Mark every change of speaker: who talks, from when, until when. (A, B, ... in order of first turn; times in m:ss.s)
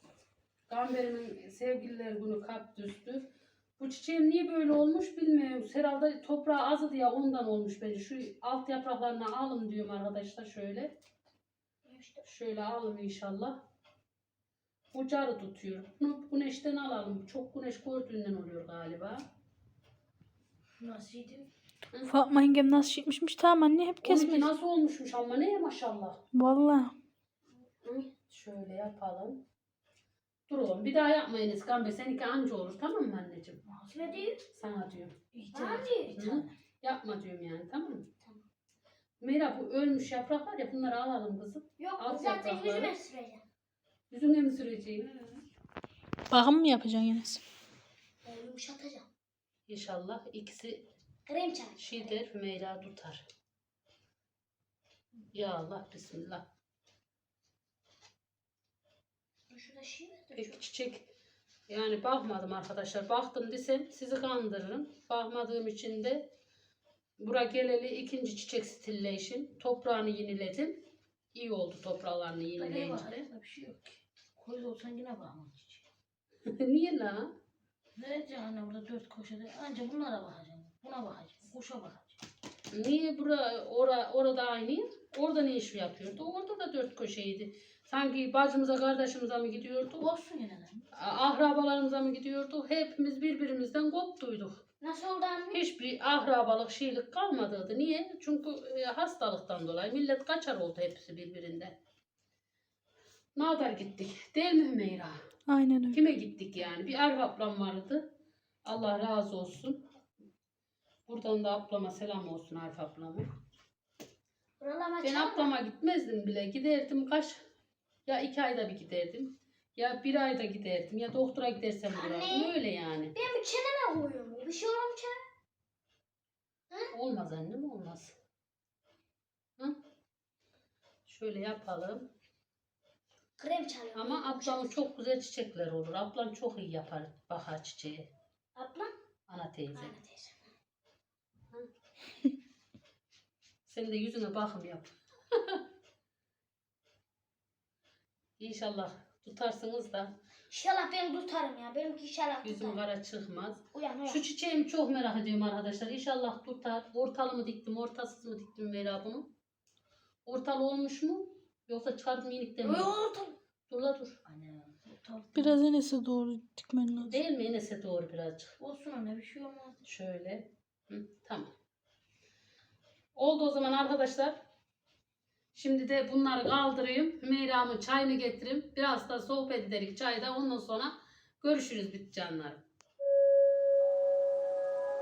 0:00.7-0:03.2 A
0:03.8-0:10.9 A
0:11.8-0:12.3 B
0:12.2-0:13.6 A
0:14.9-0:19.2 A
0:20.8-0:21.5 C
0:22.1-0:24.5 D
0:24.0-0:26.2 A
0:26.3-0:26.9 D
0:27.9-0:29.4 A
0:30.5-0:33.6 A
0:33.6-0:34.3 C
0:33.9-0:34.4 B
0:34.5-0:35.1 A
0:35.3-0:36.5 C
0:35.5-0:36.2 B
0:36.1-0:38.1 A
0:39.2-0:42.9 A
0:41.8-0:43.4 B
0:44.1-0:45.1 A
0:45.0-0:45.4 B
0:46.3-0:47.4 D
0:48.2-0:49.1 B
0:49.7-0:50.8 A
0:51.3-0:52.2 B
0:51.8-0:53.2 A
0:55.3-0:56.4 A
0:59.5-1:00.6 B
1:00.3-1:01.0 A
1:01.7-1:06.3 A
1:07.2-1:10.8 A
1:11.3-1:13.2 A
1:12.6-1:15.8 C
1:16.4-1:17.3 A
1:18.0-1:22.2 C
1:22.7-1:30.1 A
1:30.0-1:30.8 C
1:30.9-1:34.6 A
1:34.8-1:35.6 B
1:35.5-1:41.7 A
1:43.4-1:45.2 A
1:45.5-1:46.0 D
1:45.9-1:48.0 A
1:48.6-1:49.8 A
1:51.1-1:53.3 A
1:54.6-1:55.5 B
1:55.0-1:57.4 A
1:58.0-2:03.1 A
2:01.9-2:02.6 B
2:03.1-2:05.2 B
2:06.9-2:08.1 A
2:11.0-2:12.0 A
2:13.4-2:14.9 B
2:13.9-2:18.1 A
2:18.6-2:18.9 B
2:19.3-2:19.9 A
2:19.7-2:20.5 B
2:23.6-2:25.6 A
2:28.4-2:30.1 A
2:30.5-2:32.8 B
2:32.4-2:39.3 A
2:33.7-2:34.2 B
2:40.2-2:42.9 A
2:42.6-2:43.4 C
2:43.7-2:44.2 A
2:44.2-2:45.6 C
2:45.4-2:47.2 D
2:47.0-2:48.5 A
2:48.6-2:49.8 C
2:49.8-2:51.5 A
2:53.2-2:54.4 A
2:55.5-3:02.6 A